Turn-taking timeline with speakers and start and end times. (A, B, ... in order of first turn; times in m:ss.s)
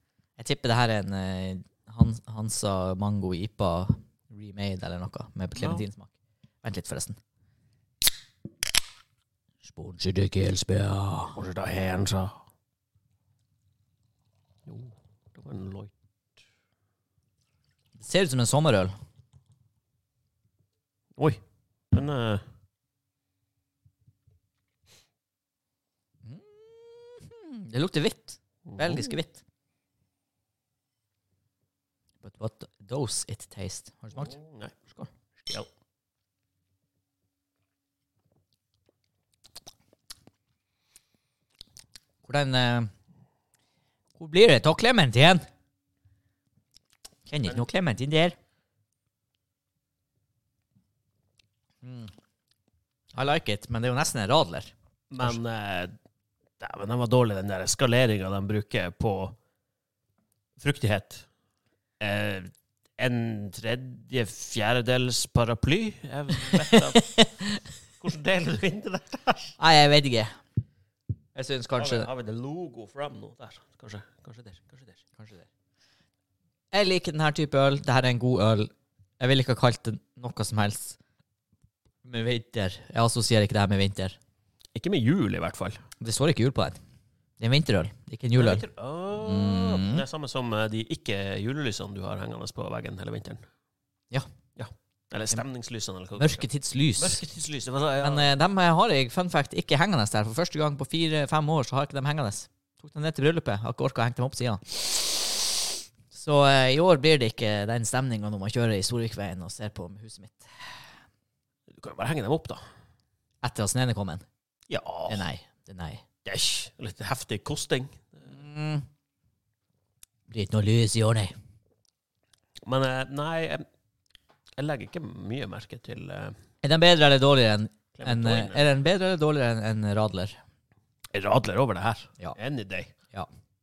0:00.4-0:07.2 A
0:05.6-0:05.8 B
0:09.6-0:11.4 A
0:11.3-0:12.4 B
0:14.7-0:15.9 B
0:18.0-0:18.9 A
0:21.9-0:22.4 B
0:26.2-0:29.4 A
0:28.7-0:29.1 B
0:32.2-0:34.3 A
0:34.1-0:34.8 B
0:42.2-0:42.9 A
0:44.2-0:45.4 A
0:47.3-0:48.4 A
0:51.8-0:52.1 A
0:53.1-0:55.4 A
0:55.1-0:55.9 B
0:56.6-0:59.3 B
1:00.6-1:01.2 B
1:02.0-1:07.1 B
1:06.7-1:07.6 A
1:08.0-1:09.5 B
1:09.6-1:10.3 A
1:11.3-1:12.1 A
1:11.8-1:15.0 B
1:15.2-1:15.5 A
1:16.7-1:21.0 A
1:22.0-1:24.2 A
1:24.7-1:25.8 B
1:26.0-1:26.8 A
1:27.4-1:28.6 A
1:28.4-1:33.4 B
1:29.2-1:30.0 A
1:34.6-1:36.4 B
1:36.2-1:37.2 A
1:37.0-1:38.3 B
1:38.0-1:45.5 A
1:46.1-1:50.7 A
1:51.7-1:52.6 B
1:53.4-1:54.2 A
1:54.7-1:55.3 B
1:55.1-1:56.0 A
1:56.2-1:58.2 B
1:58.2-1:58.8 A
2:00.3-2:01.3 A
2:02.6-2:03.6 B
2:04.6-2:06.3 B
2:06.6-2:10.4 A
2:07.9-2:08.6 B
2:11.1-2:12.9 B